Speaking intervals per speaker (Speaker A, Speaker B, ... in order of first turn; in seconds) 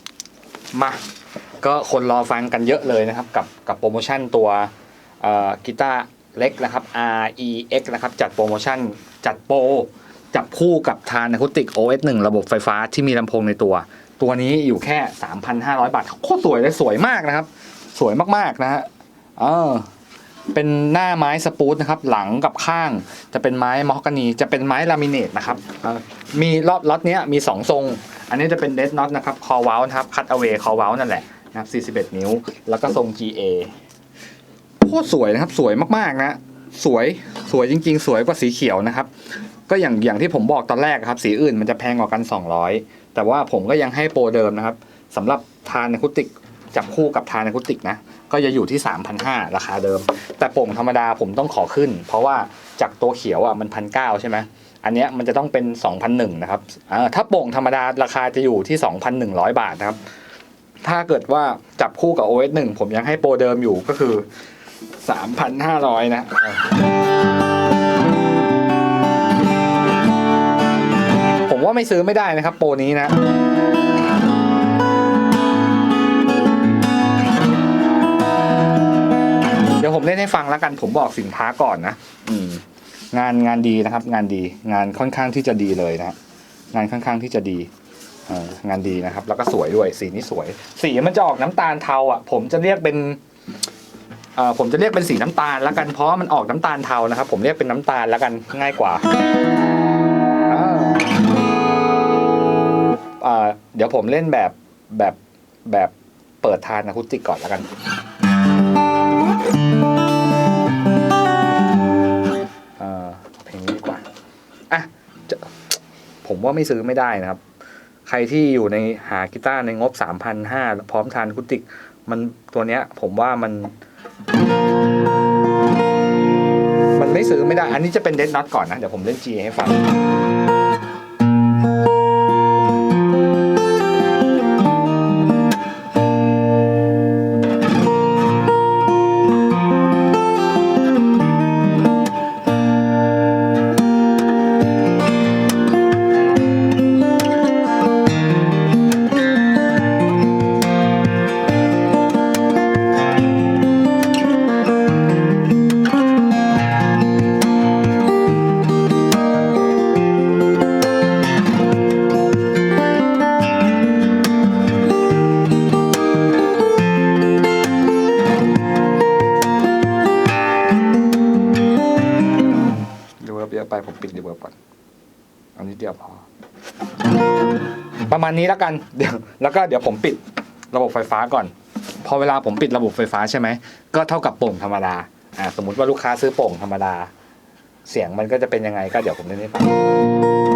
Speaker A: 0.7-1.0, 1.6-19.9, 20.5-33.7, 34.8-39.1, 39.7-60.0, 60.8-64.3, 65.0-66.7, 71.5-73.2, 79.8-86.2, 86.7-87.7, 88.3-93.2, 94.3-99.0, 100.5-101.2, 103.2-107.7, 112.8-114.0, 114.7-115.6, 116.2-117.4, 118.0-123.8, 126.9-129.9, 173.2-174.6, 175.6-176.2, 178.0-187.1, 187.8-189.8